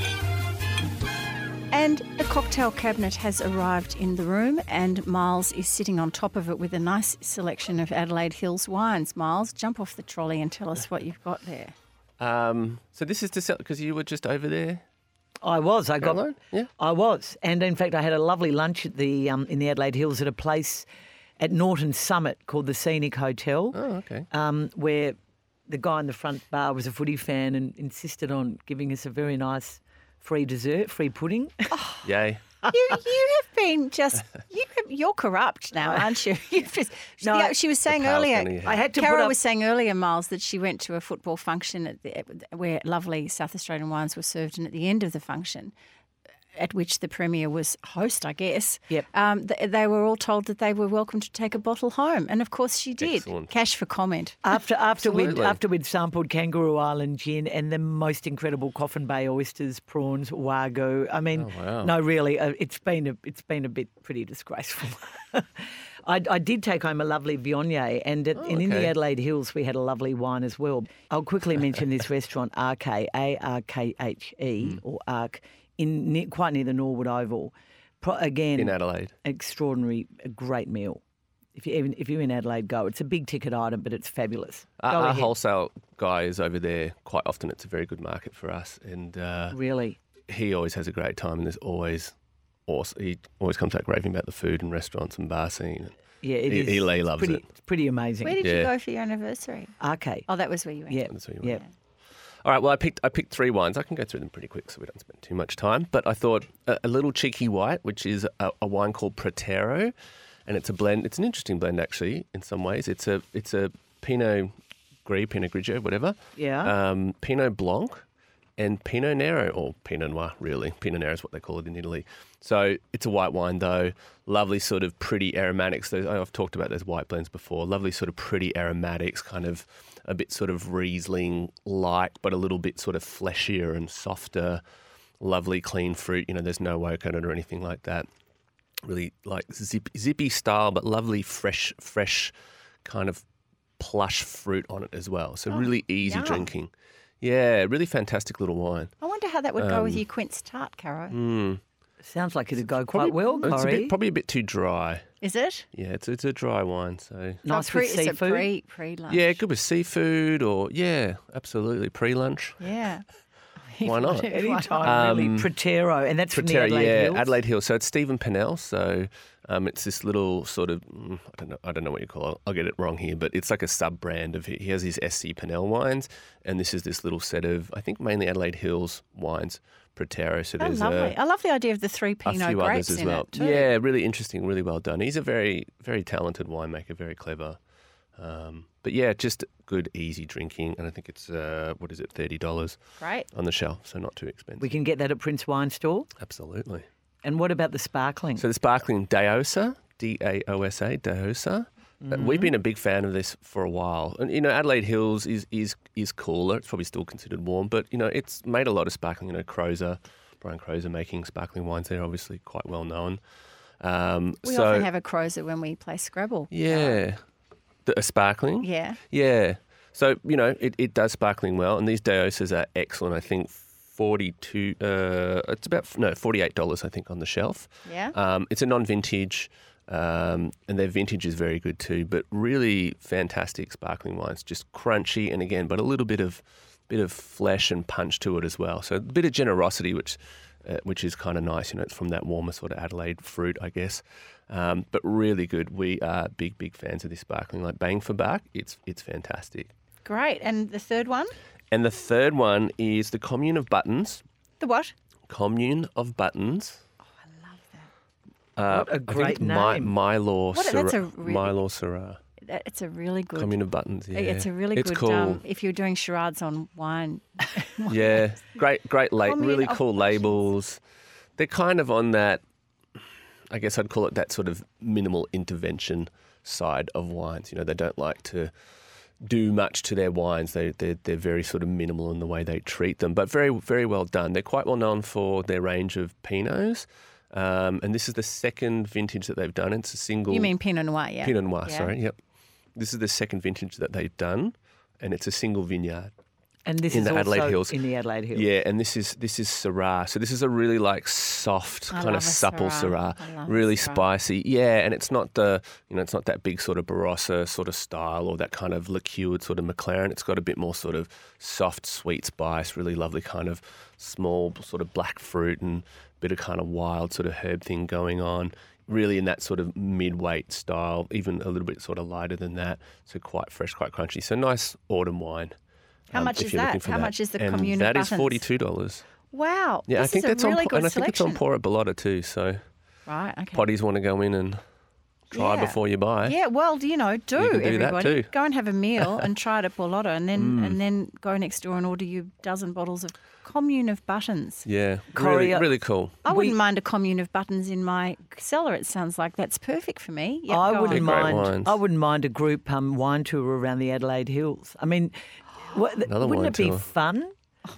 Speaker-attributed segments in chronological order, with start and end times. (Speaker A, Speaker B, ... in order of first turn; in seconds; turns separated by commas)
Speaker A: 1.7-11.7, Speaker B: 12.2-14.8, Speaker C: 15.4-20.9, Speaker B: 16.0-16.7, Speaker C: 21.4-23.8, Speaker B: 23.7-24.3, Speaker C: 24.3-25.1, Speaker C: 25.7-31.7, Speaker A: 31.7-32.1, Speaker B: 32.0-32.4, Speaker A: 32.7-45.7, Speaker C: 35.8-36.2, Speaker C: 37.2-37.5, Speaker B: 37.9-38.8, Speaker C: 38.6-39.4, Speaker A: 46.5-54.4, Speaker B: 53.0-53.5, Speaker C: 54.4-81.0, Speaker B: 55.0-55.6, Speaker B: 61.3-61.9, Speaker B: 68.3-69.0, Speaker B: 78.6-79.1, Speaker C: 81.5-85.3, Speaker B: 84.8-89.6, Speaker C: 89.5-90.0, Speaker B: 90.3-92.1, Speaker B: 92.7-97.4, Speaker C: 96.2-98.4, Speaker A: 98.2-99.7, Speaker B: 98.4-98.7, Speaker C: 99.8-100.3, Speaker A: 100.3-101.7, Speaker C: 100.9-101.6, Speaker B: 101.1-101.5, Speaker B: 102.4-109.9, Speaker B: 110.5-114.5, Speaker B: 115.0-118.0, Speaker C: 116.3-116.7, Speaker B: 118.6-134.6, Speaker B: 135.2-138.1, Speaker B: 138.8-142.3, Speaker B: 142.8-143.2, Speaker B: 143.8-148.9, Speaker A: 145.5-146.5, Speaker A: 149.0-151.2, Speaker B: 149.6-150.0, Speaker B: 151.1-151.6, Speaker C: 152.0-153.9, Speaker B: 152.9-155.0, Speaker A: 153.2-153.6, Speaker A: 155.2-155.7, Speaker B: 155.7-157.4, Speaker C: 157.4-158.5, Speaker A: 157.5-159.4, Speaker B: 159.1-162.6, Speaker A: 162.6-163.0, Speaker A: 163.7-165.0, Speaker B: 163.8-165.5, Speaker C: 164.3-167.3, Speaker B: 166.3-181.1, Speaker A: 180.6-183.7, Speaker B: 182.2-187.6, Speaker B: 188.2-192.8, Speaker A: 193.0-193.3, Speaker B: 193.3-194.7, Speaker C: 194.6-196.1, Speaker B: 196.2-196.8, Speaker C: 197.2-198.4, Speaker B: 198.4-213.2, Speaker C: 202.0-202.5, Speaker B: 213.8-214.9, Speaker A: 214.4-217.0, Speaker B: 216.5-217.2, Speaker B: 217.8-249.7, Speaker A: 218.6-219.0, Speaker A: 227.8-228.2, Speaker A: 250.0-251.3, Speaker B: 251.7-254.2, Speaker A: 254.6-254.9, Speaker B: 255.3-256.8, Speaker A: 257.2-257.9, Speaker B: 258.6-262.2, Speaker C: 258.7-259.9, Speaker A: 260.5-261.5, Speaker A: 262.4-263.6, Speaker B: 263.4-265.4, Speaker A: 264.1-268.4, Speaker B: 267.9-270.8, Speaker A: 269.2-270.2, Speaker B: 271.4-272.4, Speaker B: 273.5-278.5, Speaker B: 279.2-290.5, Speaker A: 290.3-291.9, Speaker B: 291.2-292.2, Speaker B: 292.7-296.1, Speaker C: 296.6-298.5, Speaker B: 296.9-297.7, Speaker B: 298.3-325.5, Speaker A: 301.9-304.1, Speaker B: 326.1-329.0, Speaker A: 326.1-328.4, Speaker A: 329.3-331.4, Speaker B: 329.9-332.6, Speaker A: 333.1-333.6, Speaker B: 333.5-334.6, Speaker B: 335.3-336.4, Speaker A: 335.3-344.6, Speaker B: 337.4-338.3, Speaker B: 339.0-339.2, Speaker B: 340.3-340.8, Speaker B: 344.6-346.1, Speaker C: 345.1-345.7, Speaker A: 346.2-351.2, Speaker C: 346.2-346.6, Speaker C: 350.5-357.3, Speaker B: 350.9-351.7, Speaker B: 356.1-356.8